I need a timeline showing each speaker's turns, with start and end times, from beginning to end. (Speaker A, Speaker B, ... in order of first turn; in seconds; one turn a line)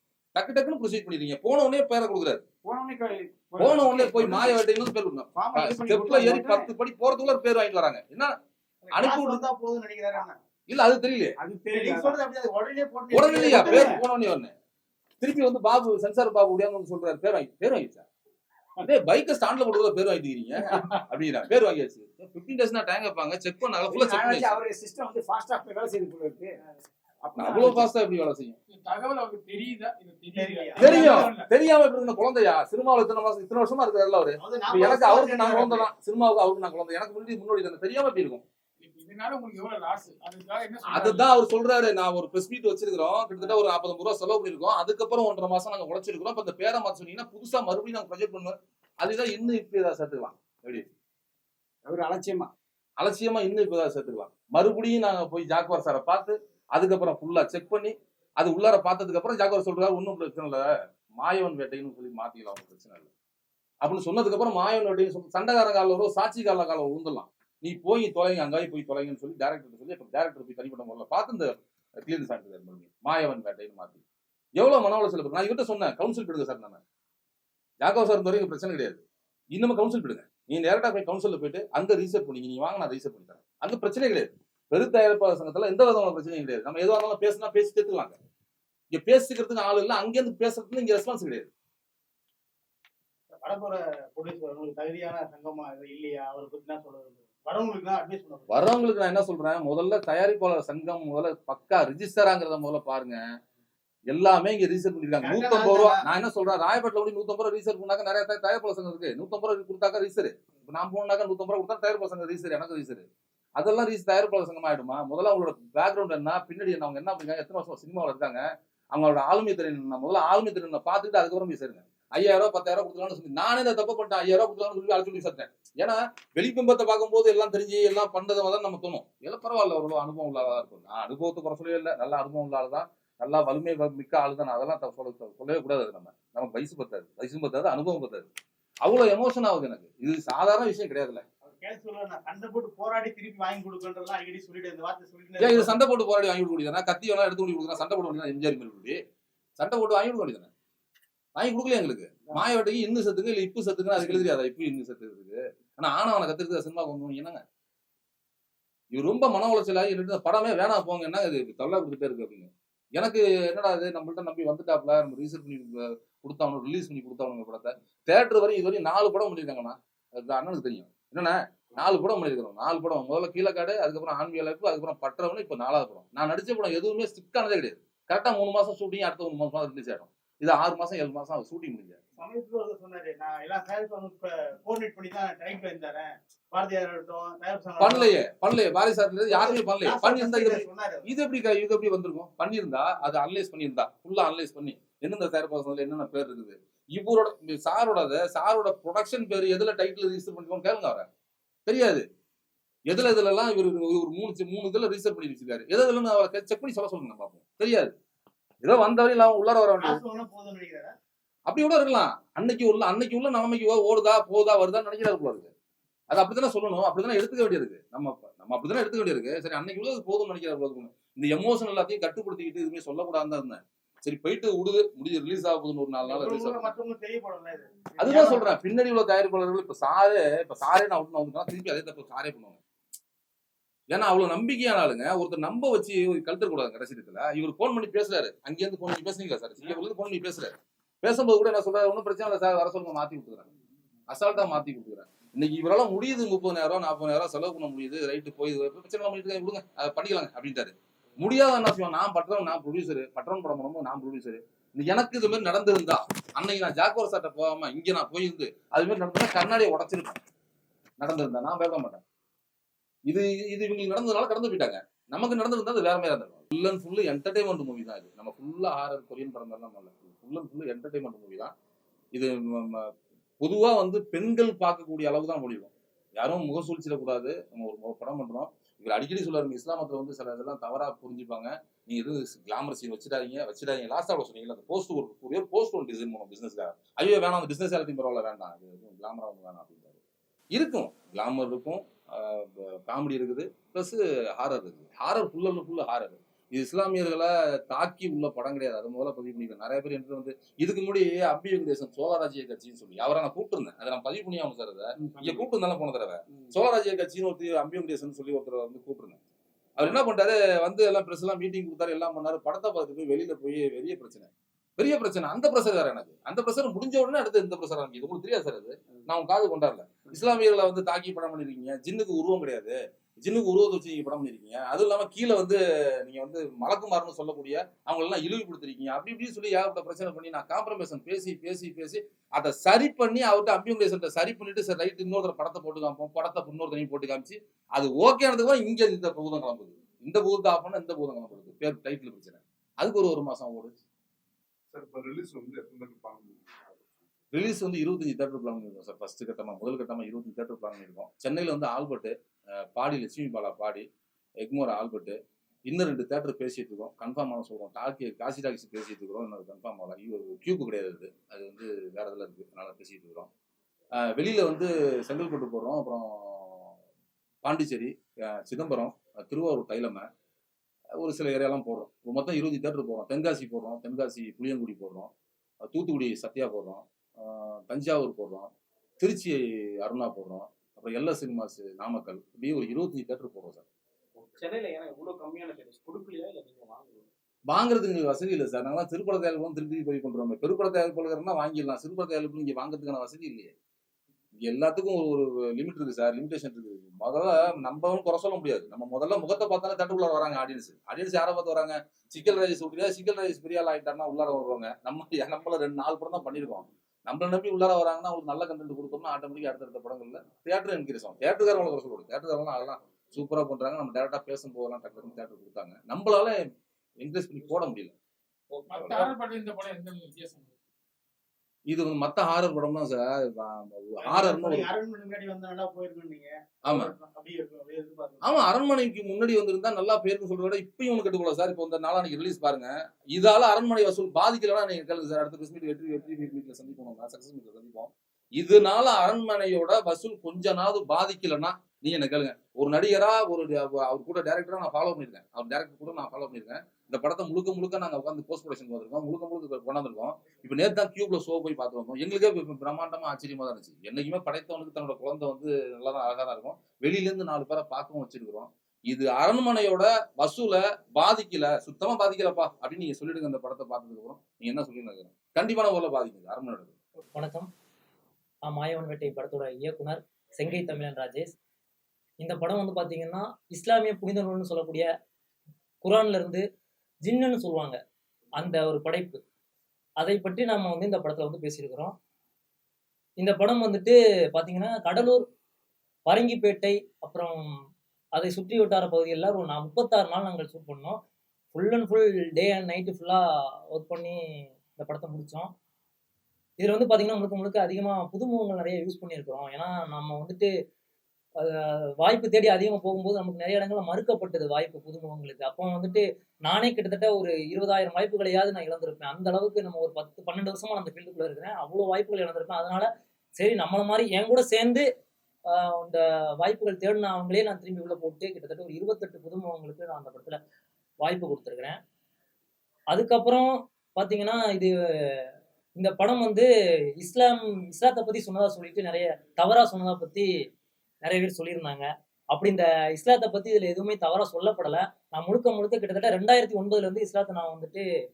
Speaker A: 0.3-2.4
Speaker B: 2.6-4.6
Speaker A: 3.6-8.4
Speaker B: 5.3-6.7
Speaker C: 8.9-10.4
Speaker A: 8.9-9.4
Speaker A: 10.7-11.4
Speaker B: 11.4-12.2
Speaker C: 11.7-14.0
Speaker A: 13.1-14.5
Speaker B: 13.5-13.9
Speaker A: 15.2-18.1
Speaker A: 18.8-24.6
Speaker B: 23.8-26.6
Speaker B: 27.2-27.9
Speaker A: 27.3-28.6
Speaker D: 28.7-31.5
Speaker C: 30.3-31.3
Speaker A: 30.8-38.4
Speaker C: 34.4-35.9
Speaker D: 38.8-41.3
Speaker A: 40.9-50.9
Speaker B: 51.9-52.5
Speaker A: 53.0-63.1
Speaker A: 63.8-74.0
Speaker A: 74.6-76.8
Speaker A: 77.8-79.0
Speaker A: 79.5-88.2
Speaker A: 88.9-91.5
Speaker C: 93.4-98.6
Speaker A: 98.5-103.2
Speaker A: 104.1-138.3
Speaker C: 105.2-106.0
Speaker A: 138.8-141.2
Speaker C: 141.4-145.8
Speaker A: 145.4-149.0
Speaker A: 149.6-150.5
Speaker A: 151.4-157.4
Speaker A: 158.9-182.0
Speaker C: 182.2-188.1
Speaker A: 187.8-201.1
Speaker C: 189.3-191.1
Speaker A: 201.7-202.1
Speaker A: 202.9-207.9
Speaker A: 208.6-210.0
Speaker C: 209.8-210.9
Speaker A: 211.5-215.5
Speaker A: 216.1-226.7
Speaker C: 226.1-228.5
Speaker A: 228.0-232.6
Speaker A: 233.9-243.5
Speaker A: 244.1-260.2
Speaker A: 261.0-262.0
Speaker A: 263.1-271.5
Speaker A: 272.1-290.0
Speaker A: 290.5-309.2
Speaker A: 309.8-343.8
Speaker E: 344.7-347.0
Speaker A: 347.3-353.9
Speaker A: 354.4-363.3
Speaker A: 364.0-366.7
Speaker A: 367.4-370.1
Speaker A: 371.0-375.1
Speaker A: 375.6-383.6
Speaker F: 384.2-387.1
Speaker A: 387.5-393.5
Speaker A: 394.4-416.4
Speaker A: 417.0-417.9
Speaker D: 418.7-420.5
Speaker A: 418.7-419.1
Speaker A: 421.7-424.7
Speaker C: 424.0-428.4
Speaker A: 426.6-426.9
Speaker A: 428.2-466.8
Speaker G: 467.1-467.5
Speaker G: 468.4-471.4
Speaker G: 472.2-474.9
Speaker G: 475.8-476.4
Speaker G: 477.0-477.8
Speaker G: 478.4-479.2
Speaker G: 480.0-481.9
Speaker G: 483.2-485.3
Speaker G: 486.1-487.6
Speaker G: 488.2-491.0
Speaker G: 491.5-495.5
Speaker G: 496.6-500.5
Speaker G: 501.4-514.9
Speaker G: 515.5-520.4
Speaker G: 521.0-521.8
Speaker G: 522.9-525.2
Speaker G: 525.8-526.5
Speaker G: 527.0-530.3
Speaker G: 531.0-537.8